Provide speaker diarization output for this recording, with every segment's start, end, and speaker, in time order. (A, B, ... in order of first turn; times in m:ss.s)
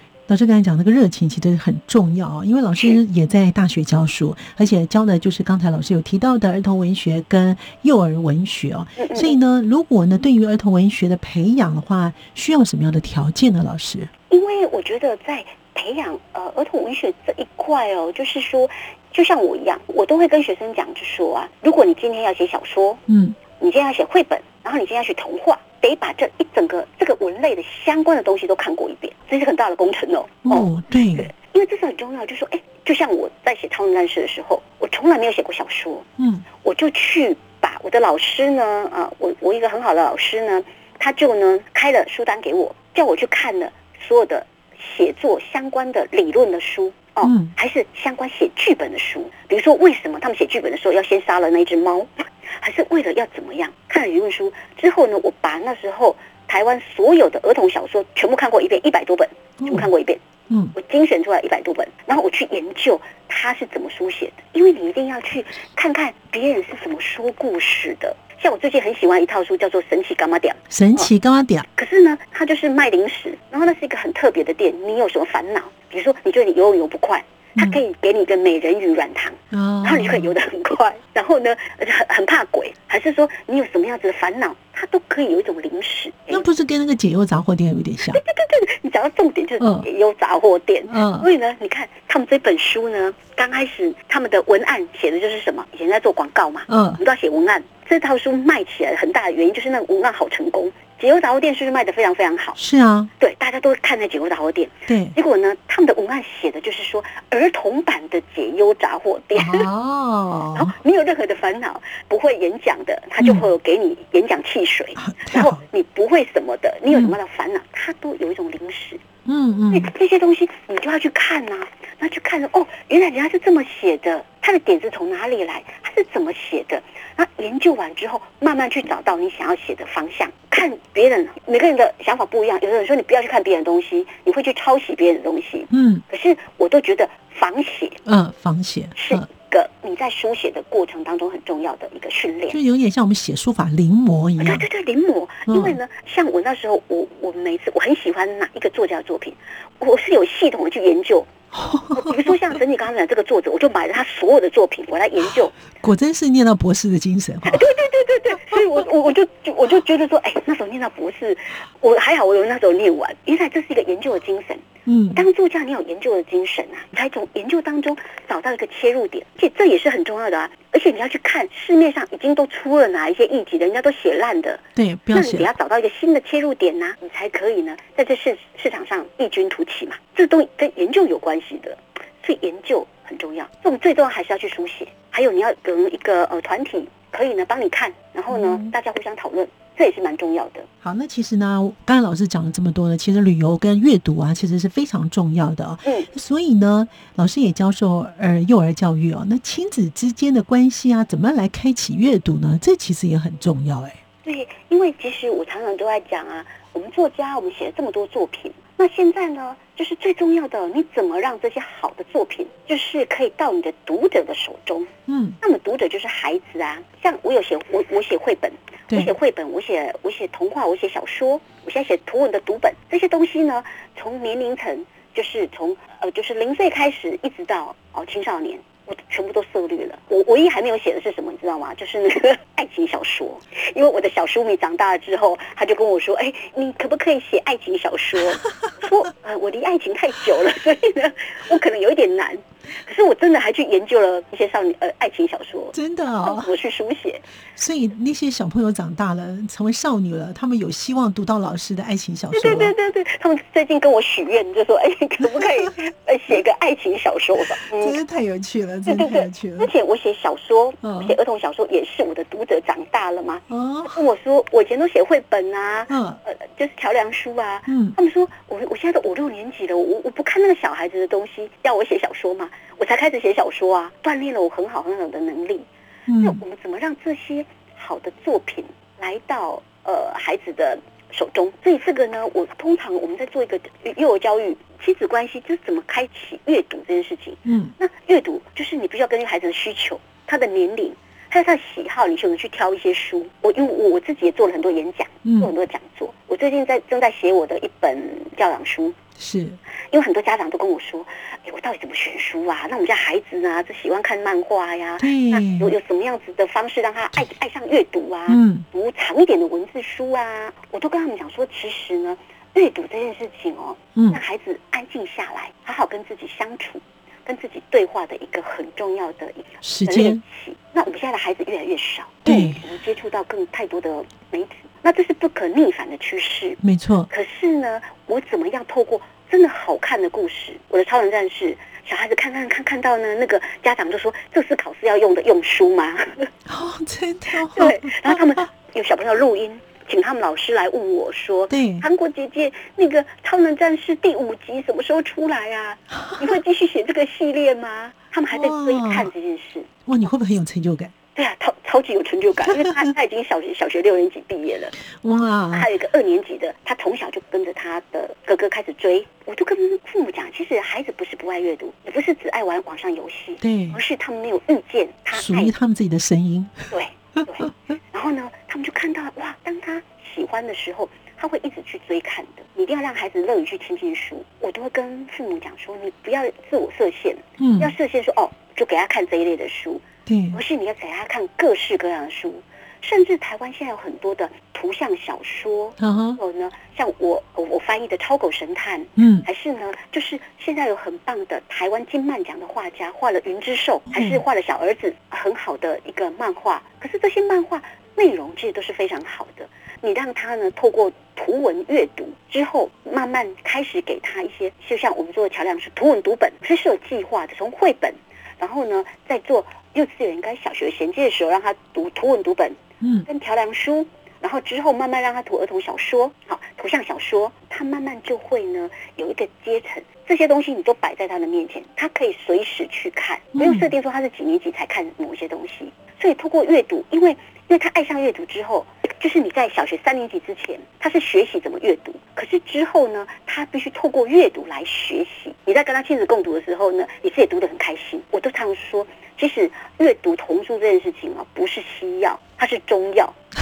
0:00.3-0:14.1 A
0:09.0-0:09.4 B
0:14.3-0:23.0 B
0:23.1-0:23.4 A
0:23.6-0:36.1 B
0:30.5-0:31.3 A
0:36.2-0:36.4 A
0:36.6-1:00.2 B
0:47.2-0:47.5 A
0:59.6-0:59.9 A
1:00.5-1:00.8 A
1:00.8-1:11.1 B
1:10.7-1:11.6 A
1:11.8-1:26.4 B
1:19.5-1:20.3 A
1:26.3-1:28.2 A
1:28.1-1:42.6 B
1:29.6-1:29.9 A
1:30.9-1:31.3 A
1:36.7-1:37.0 A
1:42.6-1:43.1 A
1:43.2-1:49.7 B
1:44.9-1:45.2 A
1:49.4-1:50.8 A
1:50.6-1:59.0 B
1:53.2-1:53.5 A
1:55.0-1:55.6 A
1:56.9-1:57.2 A
1:59.3-1:59.9 A
1:59.7-2:18.0 B
2:15.7-2:16.0 A
2:18.0-2:19.3 A
2:19.0-2:22.6 B
2:22.5-2:24.6 A
2:24.4-2:31.3 B
2:25.5-2:25.8 A
2:31.5-2:32.4 A
2:31.9-2:35.6 B
2:35.8-2:37.7 A
2:37.4-3:10.7 B
2:44.9-2:45.3 A
2:54.8-2:55.5 A
3:08.3-3:08.7 A
3:10.8-3:24.0 A
3:24.2-4:07.2 B
3:35.1-3:35.4 A
4:05.7-4:06.5 A
4:07.6-4:12.7 A
4:12.3-4:18.0 B
4:15.2-4:15.8 A
4:17.7-4:19.7 A
4:18.9-4:35.6 B
4:20.8-4:21.2 A
4:23.5-4:24.0 A
4:25.9-4:26.2 A
4:27.7-4:28.0 A
4:36.1-4:36.4 A
4:36.2-4:59.0 B
4:47.5-4:47.7 A
4:55.2-4:55.5 A
4:59.2-4:59.6 A
4:59.9-5:36.3 B
5:05.0-5:05.7 A
5:08.3-5:08.6 A
5:19.6-5:20.2 A
5:22.2-5:22.6 A
5:26.6-5:27.1 A
5:36.5-5:38.2 A
5:37.4-5:49.7 B
5:41.5-5:41.9 A
5:45.9-5:46.4 A
5:48.3-5:49.1 A
5:49.9-5:50.9 A
5:51.1-5:54.8 B
5:52.6-5:52.9 A
5:55.0-5:55.7 A
5:55.5-6:05.6 B
6:03.4-6:03.8 A
6:05.1-6:06.7 A
6:06.7-7:23.2 B
6:17.4-6:17.7 A
6:20.1-6:20.4 A
6:25.8-6:26.2 A
6:29.0-6:29.2 A
6:33.9-6:34.2 A
6:52.8-6:53.1 A
7:03.4-7:03.7 A